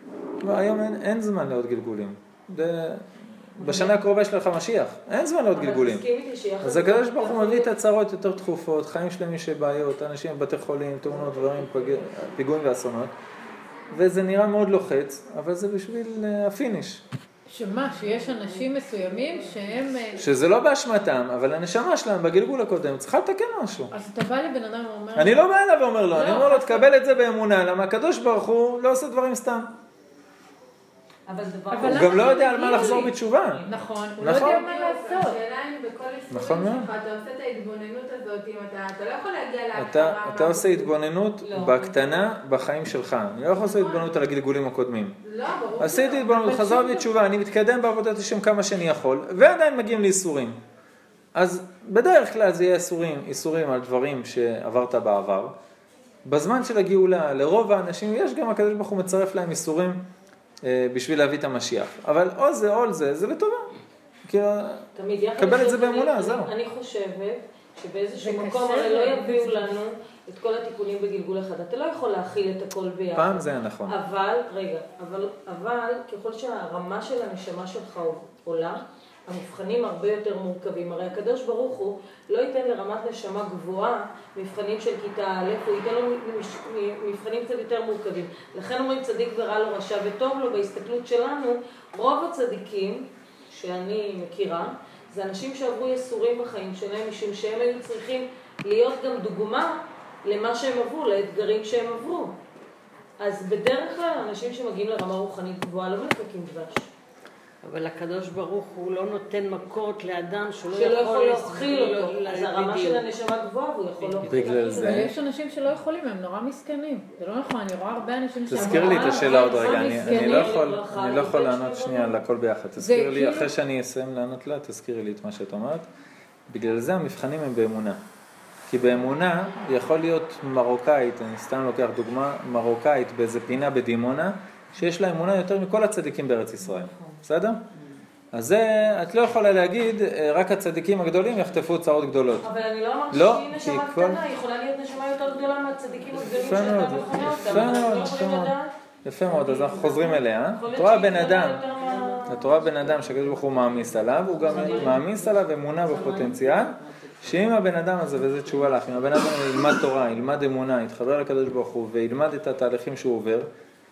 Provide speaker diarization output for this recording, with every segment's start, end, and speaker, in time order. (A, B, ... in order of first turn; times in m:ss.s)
0:00.4-0:06.0 A
0:03.6-0:03.9 B
0:05.5-0:07.7 B
0:06.6-0:13.1 A
0:13.9-0:17.0 A
0:17.5-0:20.2 C
0:20.2-0:23.9 A
0:23.9-0:25.5 C
0:25.1-0:29.7 A
0:26.1-0:26.8 C
0:31.3-0:33.8 B
0:31.7-0:33.1 C
0:31.8-0:33.6 A
0:33.7-0:35.4 C
0:34.2-0:34.6 A
0:34.2-0:40.9 D
0:36.3-0:36.9 A
0:39.7-0:45.2 A
0:41.4-0:42.3 B
0:45.2-0:46.7 D
0:45.8-0:50.6 A
0:46.3-0:47.0 C
0:51.3-0:55.5 A
0:56.2-1:00.0 A
1:00.6-1:03.7 A
1:04.3-1:04.8 A
1:05.0-1:42.3 B
1:05.4-1:06.5 A
1:08.2-1:09.7 C
1:13.1-1:14.0 A
1:43.2-1:46.9 B
1:47.6-1:53.1 E
1:50.7-1:55.1 B
1:54.0-1:54.7 E
1:54.3-1:55.1 A
1:54.8-2:00.6 C
1:58.5-2:05.9 A
1:58.5-2:02.2 B
2:02.8-2:03.5 C
2:06.5-2:08.0 A
2:08.7-2:17.6 A
2:18.3-2:22.4 A
2:22.4-2:28.7 B
2:23.1-2:24.2 A
2:26.3-2:28.5 A
2:29.0-2:31.6 A
2:29.2-2:32.5 B
2:31.9-2:35.2 E
2:32.3-2:43.5 A
2:34.4-2:35.1 B
2:35.8-2:37.5 E